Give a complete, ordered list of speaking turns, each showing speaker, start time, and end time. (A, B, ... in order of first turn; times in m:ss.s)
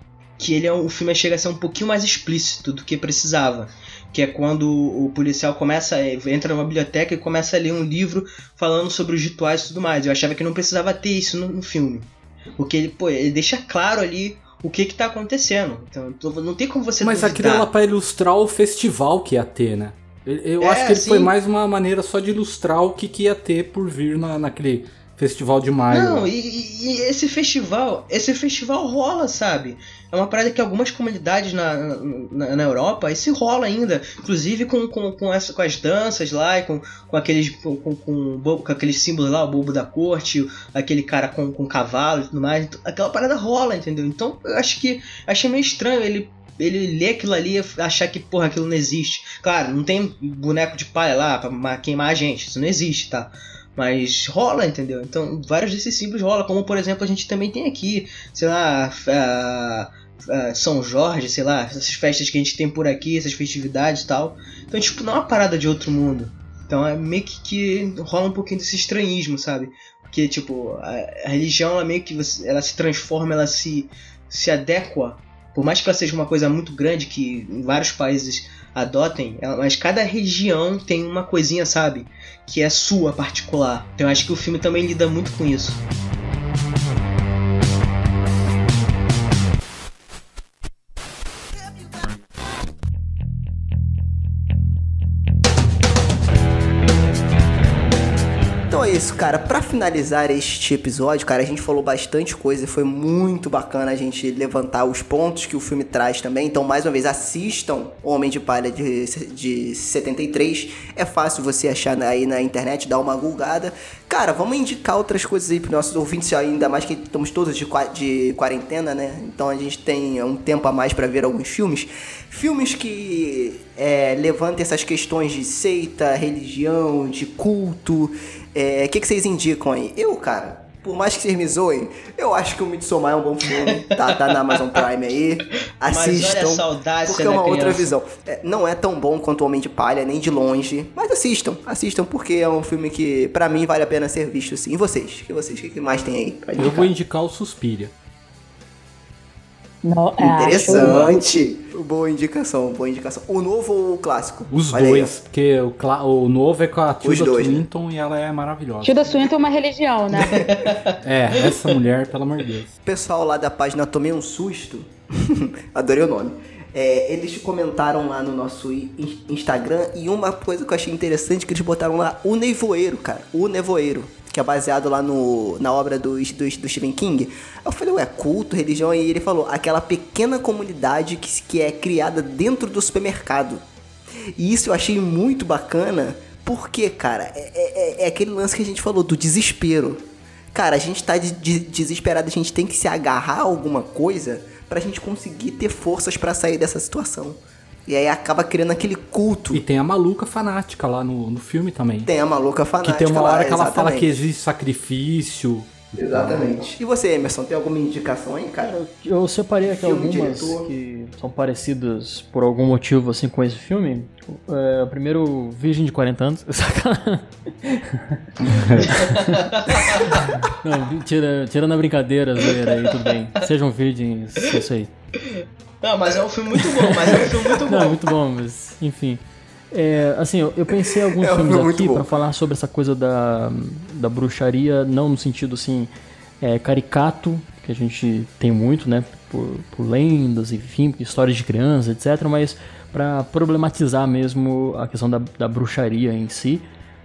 0:00.4-0:17.7 A
0:17.0-0:26.3 B
0:20.6-0:21.3 A
0:25.9-1:25.8 A
1:38.7-2:26.9 C
2:15.8-2:17.9 A
2:26.6-2:27.9 B
2:29.8-2:31.3 D
2:30.2-2:35.1 C
2:30.7-2:31.1 A
2:34.5-2:39.1 B
2:37.0-2:37.6 C
2:38.8-2:40.7 D
2:40.5-2:40.8 A
2:41.0-2:42.7 B
2:42.8-3:03.6 C
3:04.4-3:19.6 C
3:19.5-3:22.1 B
3:22.0-3:24.2 C
3:22.8-3:26.5 B
3:26.0-3:28.7 C
3:28.6-3:44.9 E
3:29.6-3:30.7 C
3:38.5-3:38.9 B
3:39.0-3:40.2 A
3:42.6-3:43.4 A
3:45.2-3:48.0 A
3:47.6-3:49.2 E
3:49.7-3:55.9 E
3:50.7-3:52.1 C
3:56.4-4:06.6 E